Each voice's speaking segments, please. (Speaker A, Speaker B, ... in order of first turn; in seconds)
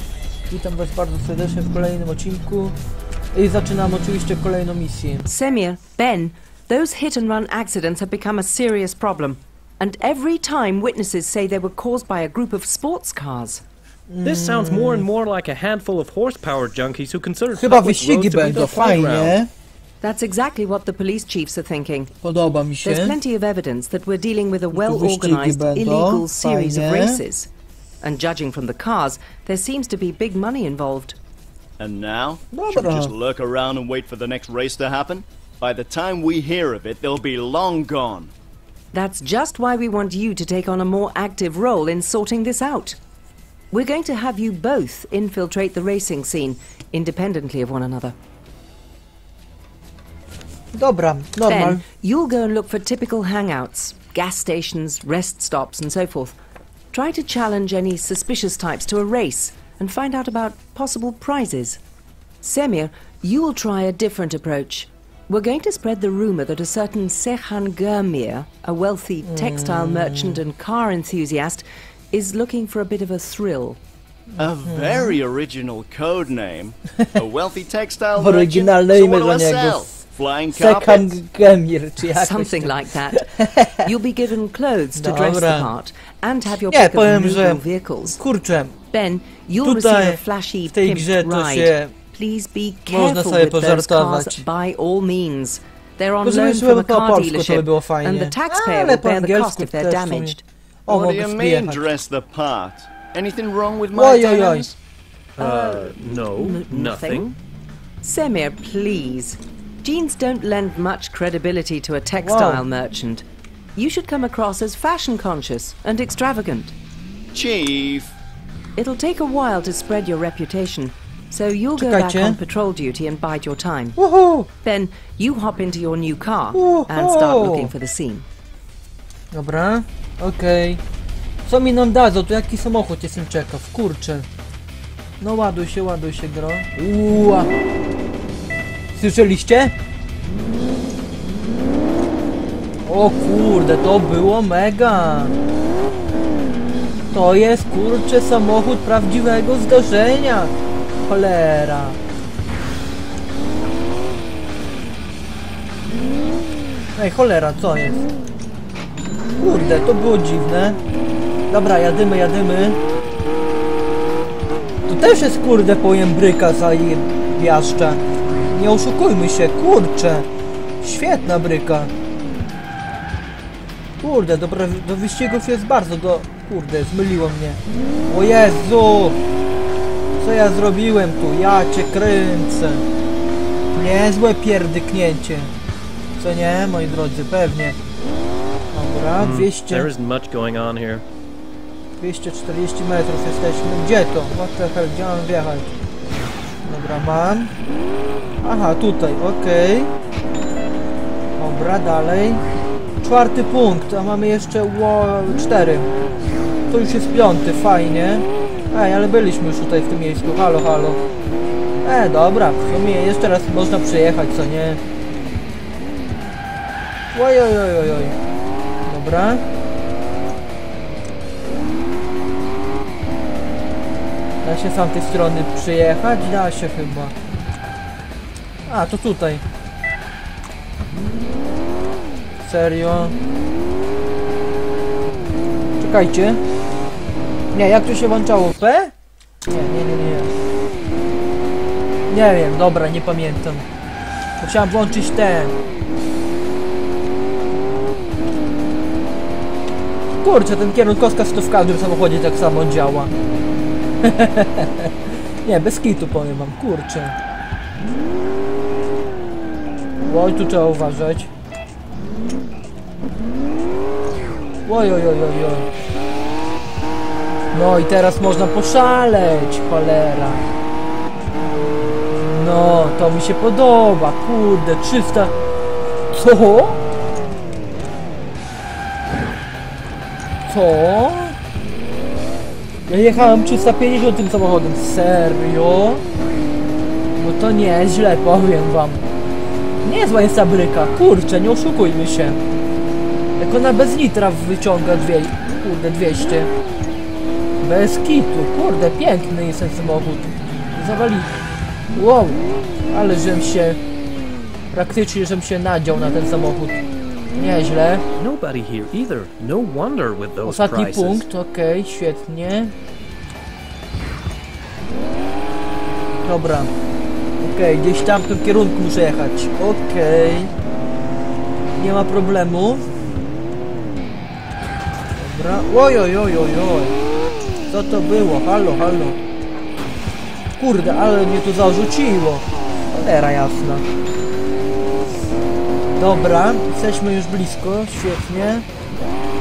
Speaker A: 0.5-2.8, 3.3-5.2, 14.1-15.1, 17.5-19.5, 22.2-23.1, 24.7-27.2, 32.5-33.1, 50.7-51.8, 69.2-70.4, 74.4-75.2, 78.2-80.0, 80.5-83.9, 84.9-85.7, 86.7-87.6, 88.2-88.7, 89.6-91.9, 92.9-94.4, 96.2-101.8, 103.9-104.7, 112.2-112.6, 121.8-122.4, 124.0-124.5, 126.5-127.7, 129.3-130.8, 131.4-134.3, 135.2-137.5, 138.9-139.7, 142.8-145.3, 147.1-150.5, 151.1-152.0, 156.9-158.0, 159.4-160.8, 161.5-162.8, 164.9-170.3, 170.8-171.9, 174.0-179.2, 180.2-182.8, 183.7-185.5, 186.2-187.8, 188.7-189.9, 192.0-195.7, 196.6-197.5, 198.4-199.9, 201.4-202.4, 203.0-205.9, 206.7-211.0, 211.8-214.8, 217.1-218.2, 218.8-219.4, 224.4-227.1, 228.7-229.4, 232.4-233.2, 235.8-236.4, 237.5-238.9, 239.4-240.3, 242.1-243.7, 244.4-245.5, 250.2-253.1, 254.0-254.9, 255.4-257.1, 260.1-261.3, 264.6-265.7, 267.5-270.4, 272.1-275.3, 276.1-276.8, 280.4-281.4, 282.9-286.0, 287.2-289.1, 289.8-292.4, 293.4-296.5, 297.6-301.4, 301.9-303.8, 304.7-306.8, 307.3-308.0, 310.4-312.7, 316.2-316.7, 317.4-320.5, 321.8-322.9, 325.2-326.9, 327.7-329.2, 330.6-333.9, 335.9-338.6
Speaker B: 5.2-13.6, 20.0-22.1, 22.8-27.5, 28.0-31.2, 38.9-43.0, 43.7-48.1, 51.4-56.3, 56.9-61.8, 62.4-73.8, 82.1-88.2, 88.9-100.4, 105.4-107.3, 108.0-113.2, 113.8-116.7, 118.8-124.0, 124.6-128.2
Speaker C: 14.2-19.4, 105.4-107.4, 189.2-191.0, 308.1-311.3
Speaker D: 31.8-38.3, 74.4-81.1, 100.9-104.8, 117.3-118.1